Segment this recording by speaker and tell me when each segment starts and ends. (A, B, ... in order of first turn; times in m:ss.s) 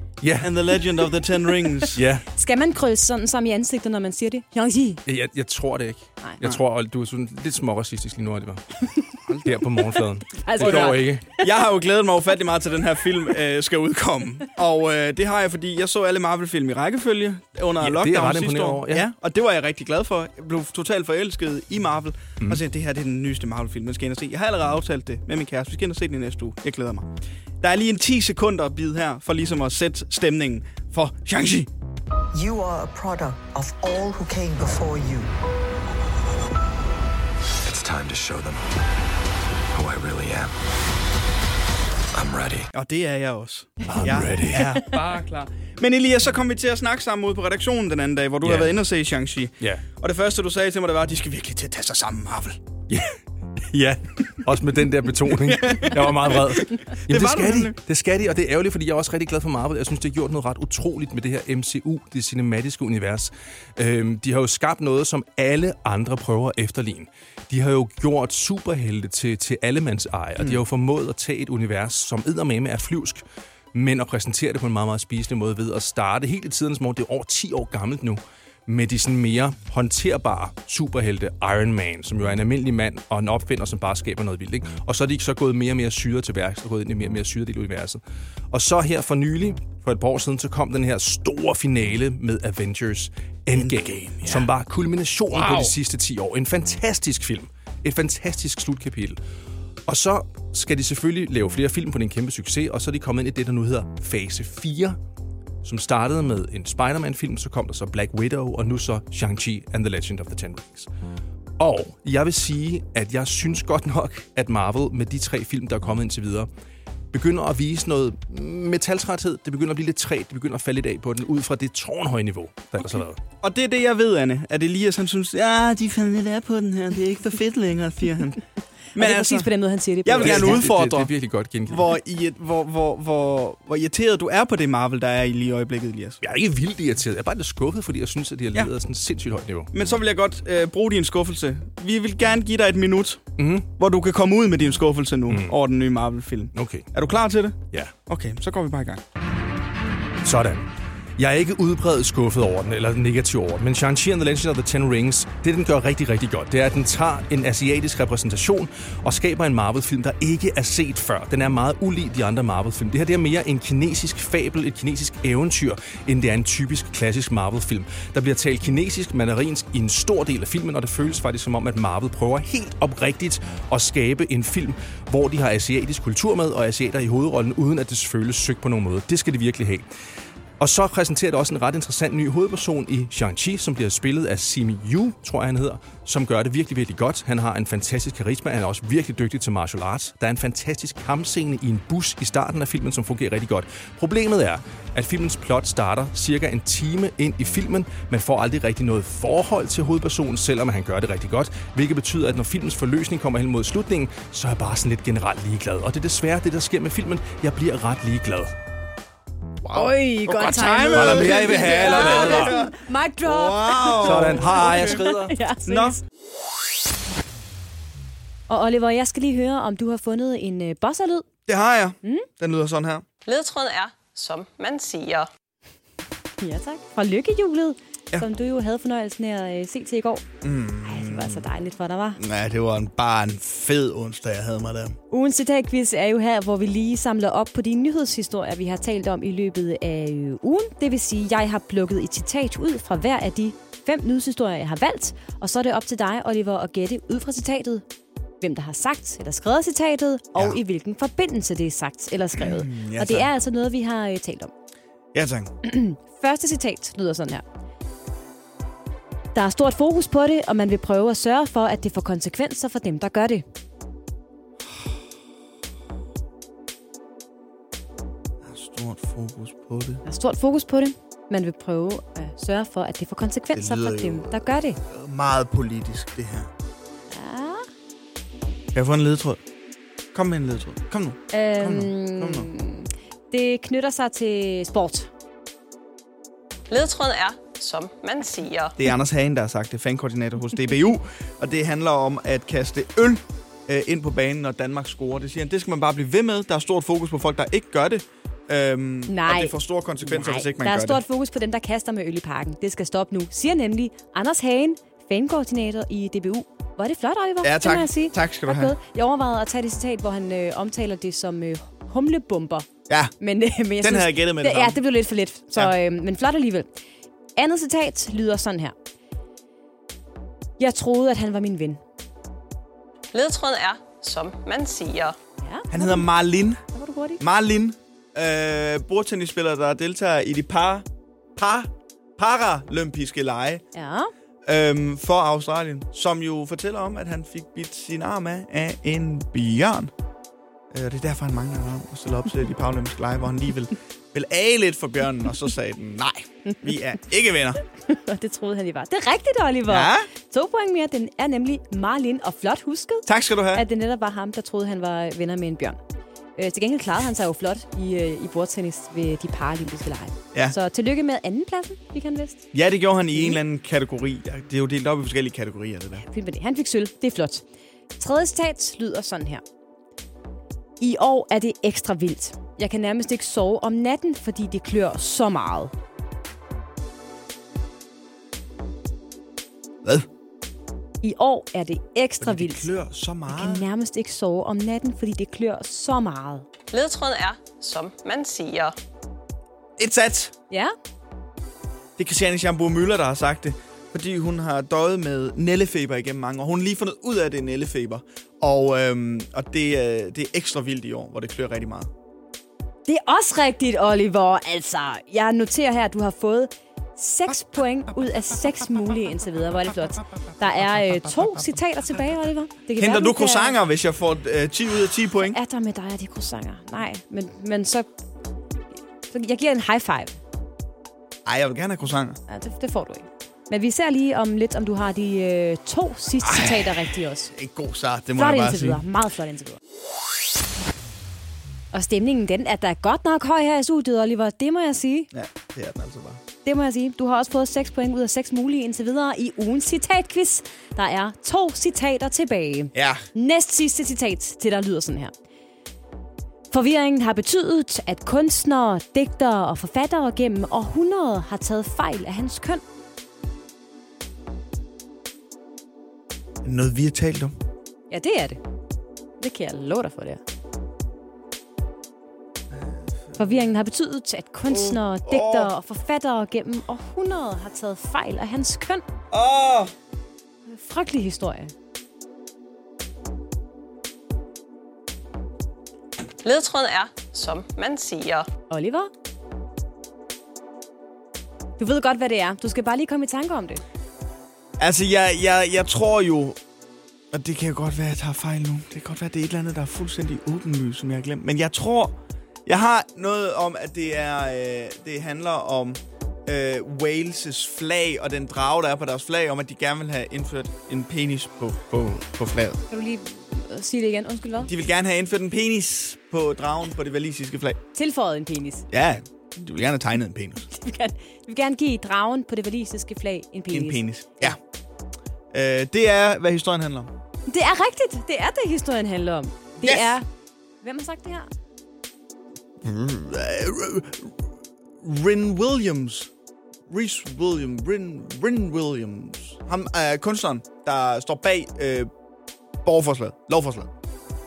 0:00.2-0:00.8 A
0:00.4-0:02.0 B
0:01.7-0:05.0 C
0:01.9-0:02.2 A
0:05.1-0:11.3 A
0:10.3-0:11.5 C
0:10.6-0:31.7 B
0:17.8-0:19.1 A
0:32.3-0:35.3 D
0:37.6-0:38.6 E
0:39.7-0:40.5 E
0:42.1-0:42.7 E
0:42.7-0:52.7 B
0:43.9-0:45.0 A
0:44.0-0:45.0 C
0:48.4-0:48.8 A
0:52.9-0:53.2 A
0:53.7-1:28.0 A
0:55.4-0:57.8 B
1:28.5-1:39.2 A
1:33.5-1:34.5 B
1:35.3-1:35.7 B
1:39.9-1:45.0 A
1:45.6-1:50.9 A
1:51.6-1:56.5 A
1:57.1-2:03.2 A
2:03.4-2:08.4 B
2:09.0-2:09.5 B
2:09.0-2:10.7 C
2:10.0-2:11.1 B
2:10.2-2:11.9 A
2:11.7-2:16.2 B
2:16.2-2:19.7 A
2:19.7-2:29.0 B
2:23.4-2:23.7 A
2:25.3-2:25.6 A
2:26.5-2:26.9 A
2:30.2-2:30.6 A
2:31.2-2:59.9 A
3:00.6-3:28.5 A
3:29.7-3:36.0 B
3:29.7-3:36.0 C
3:30.9-3:32.6 A
3:33.9-3:35.3 A
3:38.5-3:41.3 C
3:41.5-3:43.0 B
3:42.0-3:42.3 C
3:43.3-3:45.3 F
3:46.4-3:50.2 C
3:50.4-3:51.5 B
3:50.8-3:52.2 C
3:52.2-3:55.0 B
3:55.1-4:07.8 C
4:08.4-4:14.5 C
4:12.4-4:13.3 B
4:15.1-4:15.5 B
4:15.6-4:17.4 C
4:19.4-4:23.4 C
4:28.4-4:30.0 B
4:30.0-4:34.8 C
4:33.5-4:36.5 B
4:37.1-4:37.6 C
4:38.7-4:39.4 B
4:40.1-4:42.5 B
4:41.3-4:45.1 C
4:46.7-4:48.8 F
4:48.8-5:01.0 B
4:59.1-5:12.7 C
5:07.4-5:08.8 B
5:12.9-5:13.1 B
5:13.2-5:16.7 C
5:13.8-5:14.8 B
5:17.4-5:18.8 C
5:20.6-5:21.8 C
5:23.1-5:25.2 F
5:25.4-5:26.1 C
5:25.7-5:26.6 B
5:26.7-5:27.2 C
5:27.2-5:33.6 B
5:33.7-5:34.1 C
5:34.5-5:39.9 B
5:40.7-5:47.6 B
5:47.8-5:55.8 C
5:49.7-5:50.1 B
5:53.1-5:53.6 B
5:56.4-6:02.5 C
6:02.5-6:06.0 B
6:03.1-6:03.4 C
6:06.0-6:07.4 C
6:08.0-6:09.4 C
6:10.8-6:15.7 C
6:21.0-6:22.7 C
6:22.2-6:23.6 B
6:23.3-6:26.4 C
6:26.7-6:28.8 F
6:29.8-6:30.3 B
6:32.0-6:41.9 B
6:42.9-6:53.6 C
6:52.8-6:55.4 B
6:55.2-6:57.9 C
6:59.1-7:00.2 C
7:01.2-7:02.2 B
7:02.3-7:07.3 C
7:06.2-7:06.7 B
7:07.3-7:08.8 B
7:08.2-7:09.6 C
7:11.7-7:15.1 C
7:15.1-7:16.2 B
7:16.4-7:25.1 C
7:22.7-7:23.0 B
7:26.5-7:32.6 C
7:36.4-7:37.4 B
7:37.9-7:38.4 C
7:39.2-7:40.2 C
7:42.5-7:43.2 B
7:43.2-7:48.8 C
7:44.5-7:45.5 B
7:49.1-7:49.7 B
7:50.5-7:51.5 C
7:56.2-7:58.3 F
7:58.5-7:58.9 C
8:01.6-8:03.6 C
8:04.6-8:06.4 B
8:07.1-8:22.6 B
8:22.7-8:24.5 C
8:24.4-8:27.6 B
8:27.8-8:28.7 C
8:28.7-8:30.5 B
8:30.5-8:34.4 C
8:33.5-8:34.4 B
8:35.3-8:36.9 B
8:37.3-8:40.0 C
8:39.6-8:39.9 B
8:40.6-8:41.3 C
8:42.6-8:44.2 B
8:44.8-8:46.1 B
8:46.7-8:51.9 B
8:52.6-8:53.7 B